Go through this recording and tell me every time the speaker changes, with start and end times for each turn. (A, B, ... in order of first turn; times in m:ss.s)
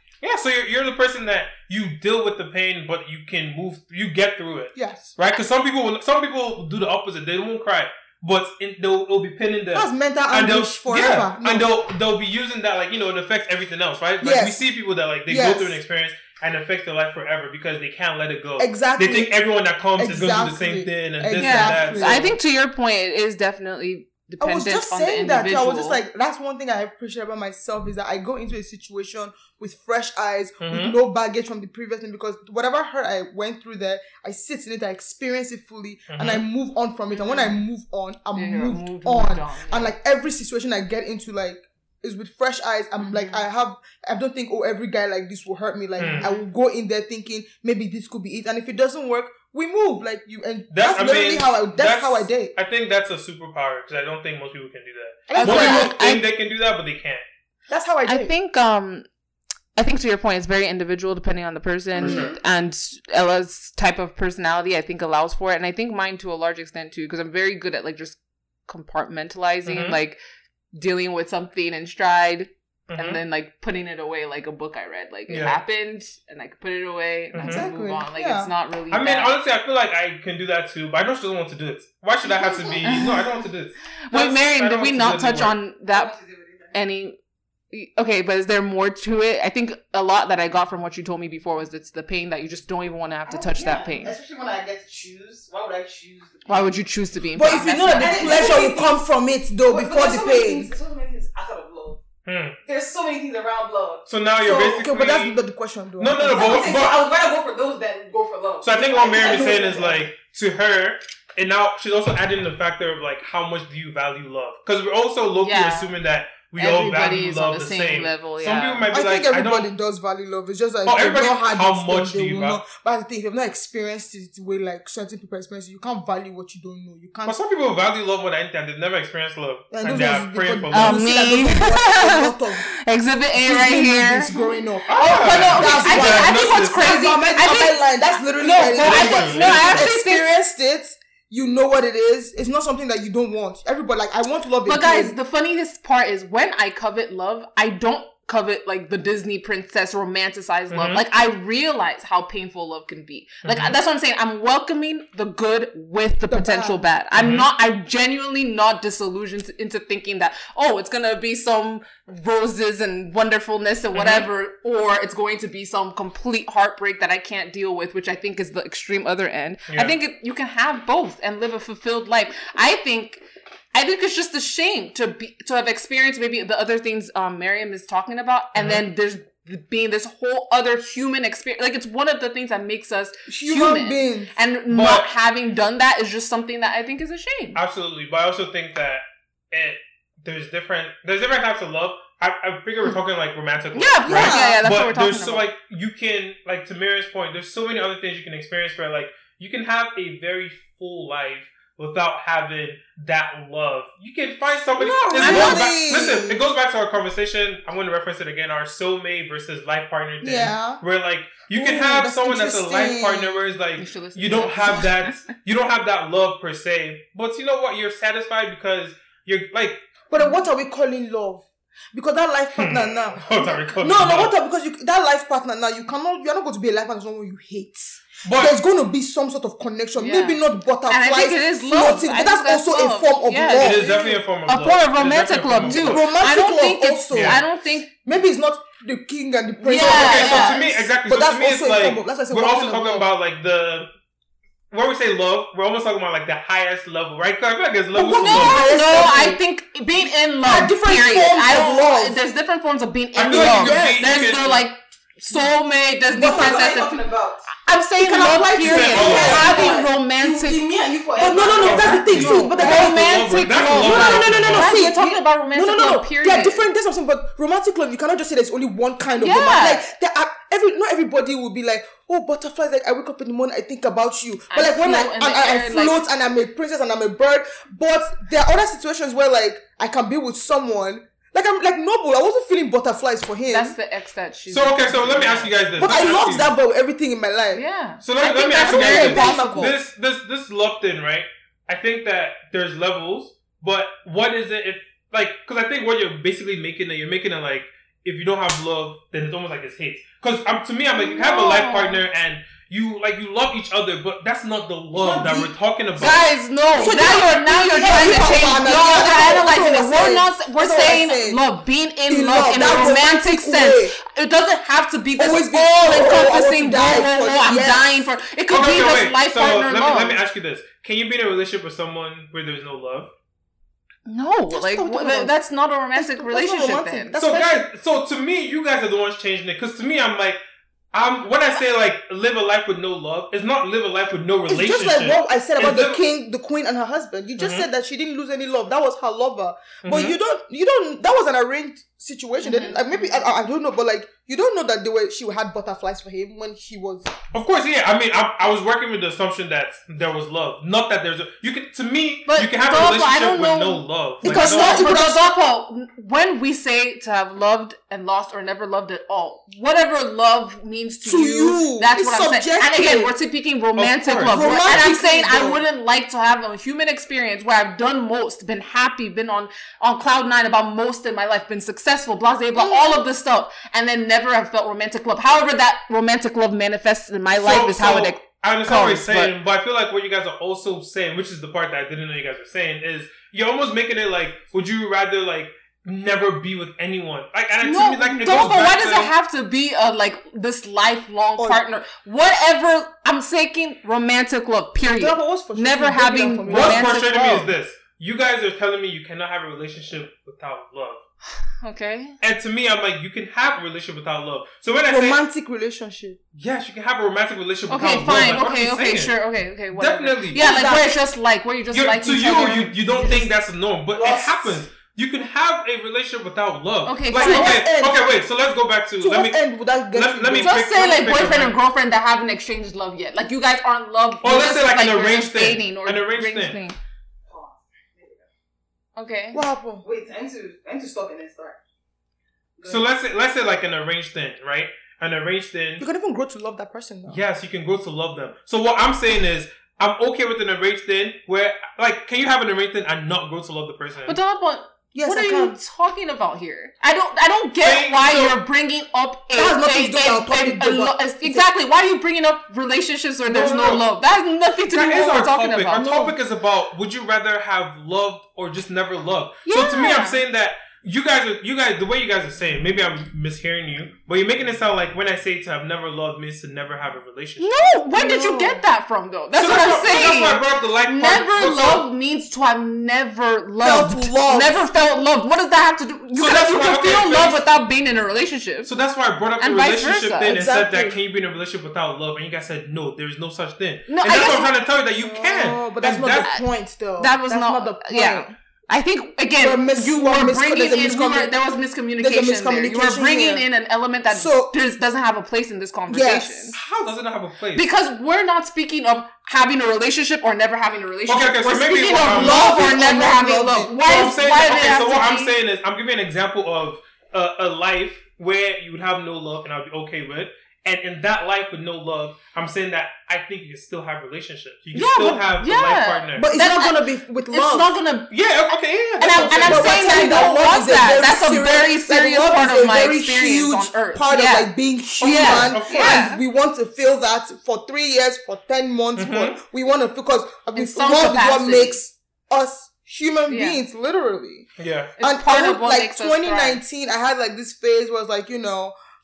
0:00.2-0:22.4 A
0:04.8-0:05.1 B
0:09.7-0:11.7 B
0:14.2-0:14.6 B
0:15.3-0:15.8 B
0:18.6-0:19.3 B
0:20.0-0:22.3 B
0:21.4-0:26.0 C
0:24.4-0:52.5 B
0:30.6-0:31.0 A
0:36.1-0:36.4 A
0:37.1-0:37.6 C
0:38.4-0:39.9 C
0:43.0-0:43.4 C
0:46.0-0:46.2 A
0:46.1-0:46.5 C
0:50.7-0:57.2 A
0:55.3-0:56.0 B
0:55.4-0:56.2 C
0:57.7-0:58.3 B
0:58.1-0:59.1 C
0:59.8-1:10.2 C
1:02.0-1:02.4 A
1:02.0-1:02.3 B
1:09.7-1:10.0 A
1:10.7-1:19.3 C
1:12.9-1:13.2 A
1:15.3-1:15.6 A
1:17.3-1:17.7 A
1:17.4-1:18.5 B
1:18.9-1:25.6 A
1:22.4-1:22.8 D
1:22.8-1:23.2 C
1:24.1-1:26.2 C
1:25.9-1:26.8 D
1:26.7-1:27.2 C
1:27.7-1:34.2 C
1:33.3-1:36.8 D
1:36.5-1:38.7 C
1:37.4-1:40.7 B
1:37.4-1:39.0 D
1:39.6-1:42.0 D
1:42.3-1:42.6 A
1:42.6-1:44.1 D
1:44.1-1:45.4 A
1:44.4-1:46.7 B
1:46.0-1:47.0 A
1:46.3-1:50.0 D
1:48.6-1:59.7 A
1:49.1-1:49.9 B
1:55.4-1:55.9 C
1:56.6-1:58.8 C
1:58.9-2:07.4 B
2:00.9-2:02.6 A
2:07.2-2:11.1 A
2:09.7-2:12.7 B
2:10.7-2:14.3 C
2:13.4-2:25.2 B
2:14.9-2:17.0 A
2:14.9-2:20.3 C
2:18.8-2:19.9 A
2:24.7-2:53.2 C
2:30.7-2:31.0 A
2:33.4-2:33.8 A
2:36.3-2:36.8 B
2:37.1-2:37.5 A
2:43.9-2:44.3 A
2:49.7-2:50.0 A
2:53.7-3:07.6 C
2:58.6-2:58.8 A
3:03.3-3:04.3 B
3:04.7-3:05.1 A
3:07.6-3:39.8 A
3:13.7-3:15.5 C
3:14.1-3:14.6 B
3:24.8-3:26.4 B
3:25.1-3:25.6 C
3:30.2-3:30.8 B
3:31.5-3:33.4 B
3:33.8-3:35.1 C
3:40.1-3:53.9 B
3:42.6-3:44.3 A
3:48.2-3:48.6 A
3:50.0-3:57.9 C
3:53.6-3:56.0 A
3:55.6-3:57.4 B
3:57.1-3:57.4 A
3:58.0-4:03.1 B
3:59.6-4:00.6 C
3:59.8-4:03.9 A
4:04.7-4:08.6 A
4:07.9-4:09.4 B
4:08.2-4:16.9 C
4:10.4-4:12.2 B
4:13.2-4:14.6 A
4:13.3-4:14.3 B
4:16.1-4:17.5 D
4:17.6-4:20.6 C
4:18.0-4:19.8 B
4:18.6-4:19.5 A
4:18.9-4:22.6 D
4:21.2-4:43.8 B
4:21.6-4:24.8 A
4:21.8-4:26.7 C
4:29.2-4:29.8 C
4:34.5-4:36.0 C
4:43.5-4:45.6 C
4:44.5-4:46.5 A
4:45.8-4:47.6 B
4:47.5-4:49.8 C
4:48.0-5:06.3 A
4:48.4-4:49.8 B
5:00.9-5:02.0 C
5:04.9-5:11.4 B
5:06.0-5:20.2 C
5:12.1-5:14.0 B
5:15.2-5:18.1 B
5:18.5-5:23.1 A
5:24.1-5:27.3 C
5:24.5-5:25.3 B
5:26.0-5:27.6 B
5:27.2-5:30.4 A
5:30.9-5:36.0 A
5:34.5-5:47.1 B
5:37.4-5:37.7 A
5:39.8-5:40.2 A
5:42.4-5:43.1 C
5:47.3-5:54.9 A
5:52.3-6:19.4 C
5:54.2-5:55.3 B
6:01.0-6:03.2 B
6:03.8-6:04.9 A
6:04.3-6:05.6 B
6:12.6-6:13.0 B
6:17.4-6:29.1 A
6:27.6-6:37.5 C
6:31.4-6:31.6 B
6:35.0-6:37.3 B
6:36.5-6:41.0 A
6:41.6-6:42.2 C
6:42.2-6:45.2 A
6:44.9-6:46.2 B
6:46.4-6:49.2 A
6:47.7-6:53.2 C
6:49.7-6:50.4 A
6:50.4-6:51.0 B
6:51.7-6:59.4 A
6:52.3-6:53.3 B
6:54.0-6:54.5 B
6:56.8-6:57.6 C
6:57.1-6:58.1 B
6:59.0-7:00.6 B
6:59.9-7:01.6 A
7:00.4-7:06.8 C
7:04.2-7:06.6 A
7:07.3-7:08.3 D
7:09.0-7:09.4 C
7:09.3-7:09.9 B
7:09.8-7:11.6 D
7:12.6-7:12.9 D
7:12.7-7:15.8 A
7:15.8-7:17.2 B
7:17.1-7:24.2 A
7:24.1-7:36.1 C
7:24.9-7:25.6 B
7:27.6-7:28.4 A
7:29.3-7:31.5 B
7:33.3-7:33.9 A
7:34.7-7:47.6 A
7:39.5-7:40.2 C
7:47.4-7:58.7 C
7:47.9-7:48.6 B
7:49.4-7:51.9 A
7:53.6-7:54.6 B
7:56.1-7:57.4 A
7:58.6-8:06.3 A
7:59.4-8:00.4 C
8:00.3-8:01.0 B
8:03.9-8:04.5 C
8:05.0-8:08.3 B
8:07.0-8:16.6 C
8:09.4-8:11.3 B
8:12.0-8:13.5 B
8:14.1-8:14.6 B
8:15.9-8:16.6 B
8:16.6-8:17.7 A
8:17.6-8:25.3 C
8:21.1-8:22.7 A
8:22.0-8:23.8 B
8:23.8-8:36.3 A
8:34.7-8:38.1 C
8:36.2-8:37.7 B
8:38.1-8:40.0 A
8:39.0-8:46.2 C
8:39.0-8:54.5 B
8:45.0-8:46.1 A
8:49.0-8:49.4 A
8:50.6-8:51.8 C
8:53.3-8:53.6 C
8:54.6-8:54.9 A
8:55.0-8:56.6 C
8:55.0-8:58.7 B